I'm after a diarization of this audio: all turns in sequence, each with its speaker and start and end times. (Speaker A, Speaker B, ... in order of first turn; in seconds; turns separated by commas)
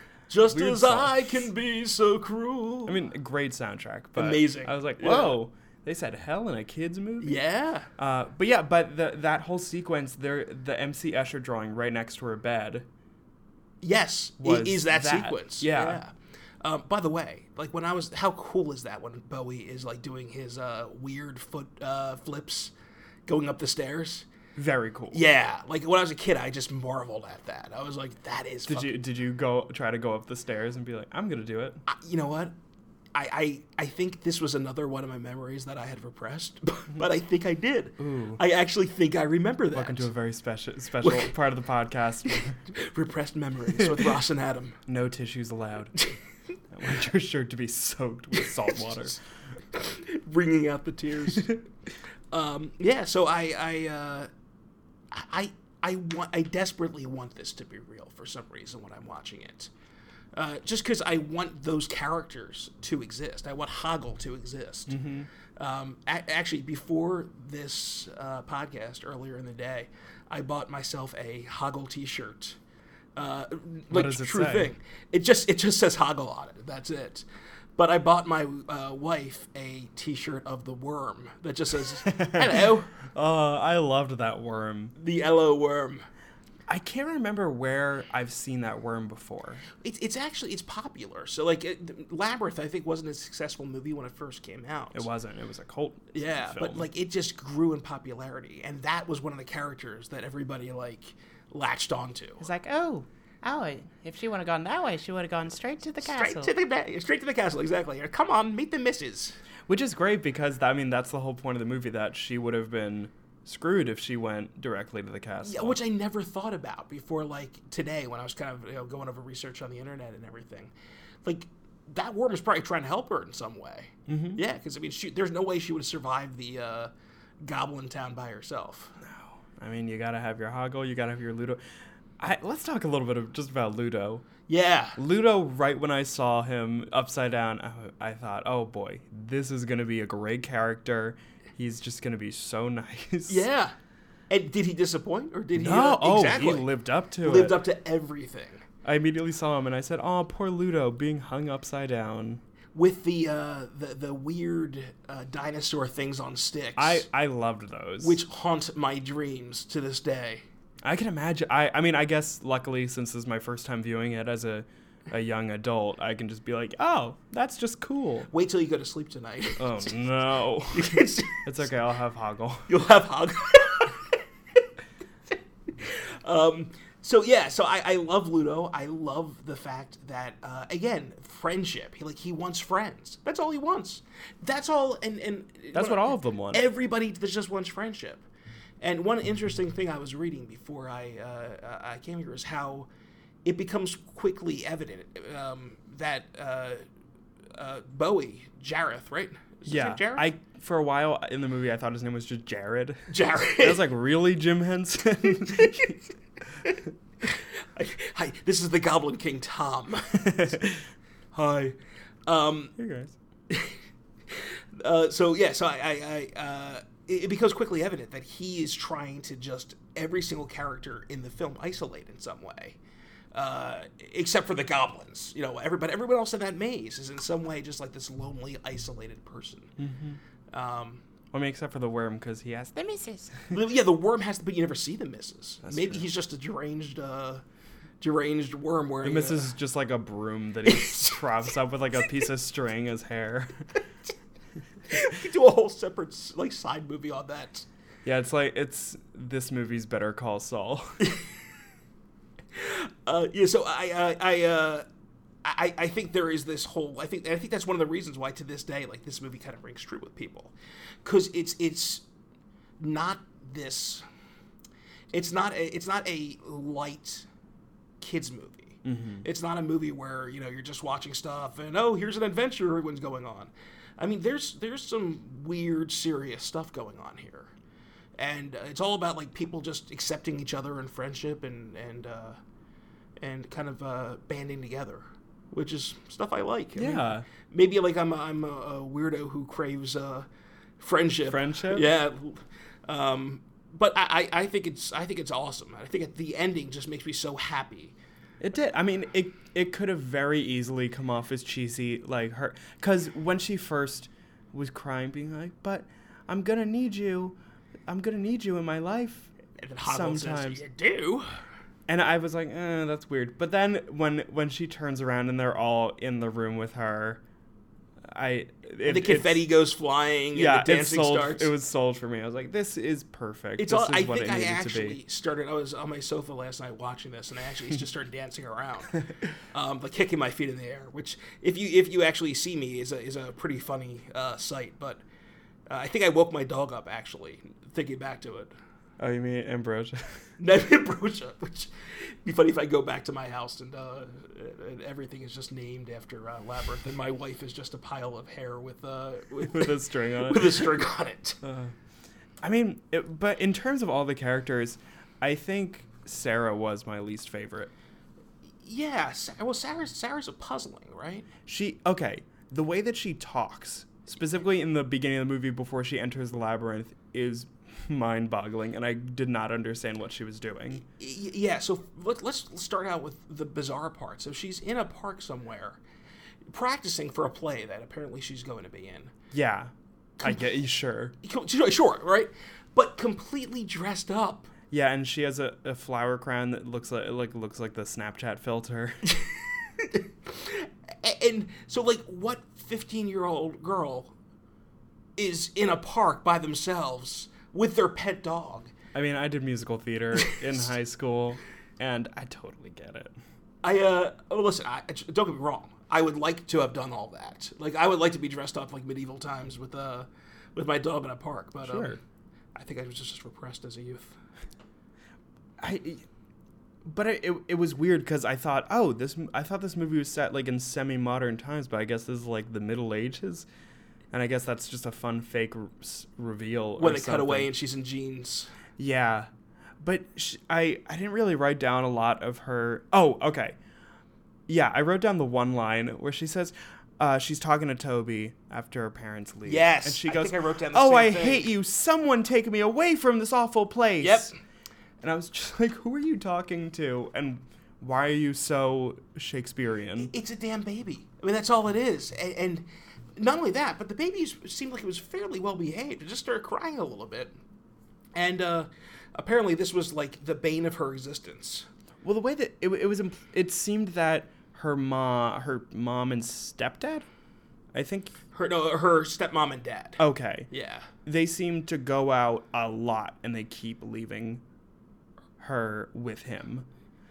Speaker A: 0.3-3.0, Speaker B: 0.5-1.4, Speaker B: 2.9-7.4, Speaker A: 4.2-5.4, Speaker A: 7.2-7.9, Speaker B: 8.0-12.9, Speaker A: 13.8-22.7, Speaker B: 14.4-16.0, Speaker A: 23.3-24.3, Speaker B: 24.6-25.2, Speaker A: 25.1-29.0, Speaker B: 28.7-31.8, Speaker A: 31.9-32.5, Speaker A: 33.1-40.1, Speaker B: 38.0-38.4, Speaker B: 39.7-42.7, Speaker A: 41.0-41.3, Speaker A: 42.7-44.8, Speaker B: 44.9-46.0, Speaker B: 46.7-49.2, Speaker A: 49.7-51.6, Speaker A: 52.3-54.3, Speaker A: 55.1-59.7, Speaker A: 60.3-65.0, Speaker B: 64.9-65.3, Speaker A: 65.6-72.6, Speaker A: 73.2-77.3, Speaker B: 73.9-74.7, Speaker A: 77.8-82.9, Speaker B: 82.0-85.0, Speaker A: 85.0-86.1, Speaker B: 86.7-89.7, Speaker A: 89.8-95.1, Speaker B: 94.9-96.9, Speaker A: 96.1-102.5, Speaker C: 102.4-106.5, Speaker A: 106.0-109.4, Speaker B: 109.7-115.8, Speaker A: 115.4-120.7, Speaker A: 121.2-126.9, Speaker B: 124.1-124.4, Speaker A: 127.4-129.0, Speaker B: 129.0-131.6, Speaker B: 132.2-134.3, Speaker A: 134.5-135.0, Speaker B: 135.0-143.5, Speaker A: 143.3-143.8, Speaker A: 144.3-146.7, Speaker B: 145.6-147.6, Speaker A: 147.2-148.6, Speaker B: 148.8-152.4, Speaker A: 152.7-157.1, Speaker B: 156.8-158.2, Speaker A: 158.0-160.4, Speaker B: 160.8-168.3, Speaker A: 168.3-169.9, Speaker B: 169.6-172.7, Speaker A: 170.7-171.5, Speaker A: 172.7-174.6, Speaker A: 175.7-188.2, Speaker B: 185.7-186.6, Speaker A: 188.8-192.9, Speaker A: 193.4-196.8, Speaker A: 197.5-200.3, Speaker B: 199.7-206.0, Speaker A: 203.1-203.8, Speaker A: 205.4-206.0, Speaker A: 206.7-210.6, Speaker B: 210.3-210.8, Speaker A: 211.3-212.7, Speaker B: 212.8-213.2, Speaker A: 213.5-222.8, Speaker A: 223.3-229.8, Speaker B: 229.8-230.2, Speaker A: 230.5-231.0, Speaker B: 231.3-232.8, Speaker C: 232.8-233.3, Speaker A: 233.5-237.4, Speaker B: 235.6-236.1, Speaker A: 238.0-239.5, Speaker B: 239.0-243.7, Speaker A: 240.7-241.3, Speaker A: 244.9-247.7, Speaker B: 248.1-251.1, Speaker A: 251.0-251.3, Speaker A: 252.5-254.8, Speaker A: 255.4-260.5, Speaker A: 261.0-262.0, Speaker A: 262.8-264.0, Speaker A: 265.1-267.3, Speaker A: 268.0-277.5, Speaker B: 268.8-269.3, Speaker A: 278.2-282.4, Speaker A: 283.2-290.3, Speaker B: 286.8-287.3, Speaker A: 290.8-297.9, Speaker B: 291.2-291.9, Speaker B: 298.4-309.3, Speaker A: 309.6-311.3, Speaker B: 309.9-310.6, Speaker B: 311.9-317.2, Speaker B: 318.1-319.4, Speaker A: 318.9-321.5, Speaker B: 320.3-325.0, Speaker A: 323.6-328.9, Speaker A: 329.5-335.0, Speaker A: 335.7-338.5, Speaker B: 339.0-340.2, Speaker A: 340.4-351.4, Speaker B: 349.4-350.8, Speaker B: 351.4-351.8, Speaker B: 352.4-357.7, Speaker A: 358.6-361.3, Speaker B: 361.4-370.9, Speaker A: 370.8-375.8, Speaker A: 376.5-379.1, Speaker B: 379.3-381.1, Speaker A: 380.2-380.5, Speaker A: 381.2-384.5, Speaker B: 384.7-389.1, Speaker A: 389.0-394.1, Speaker A: 395.2-398.7, Speaker B: 398.9-403.1, Speaker A: 403.6-412.0, Speaker B: 411.6-412.0, Speaker A: 412.6-414.2, Speaker B: 415.6-416.1, Speaker B: 416.9-423.5, Speaker B: 424.1-427.5, Speaker A: 426.8-428.5, Speaker B: 428.8-429.3, Speaker B: 429.8-433.6, Speaker B: 434.5-444.3, Speaker A: 439.5-441.5, Speaker A: 444.0-444.4, Speaker B: 445.0-450.1, Speaker A: 450.0-457.3, Speaker A: 458.1-461.7, Speaker B: 462.0-467.1, Speaker B: 467.7-468.2, Speaker A: 468.3-470.9, Speaker B: 470.0-470.5, Speaker B: 471.0-474.4, Speaker B: 475.4-476.7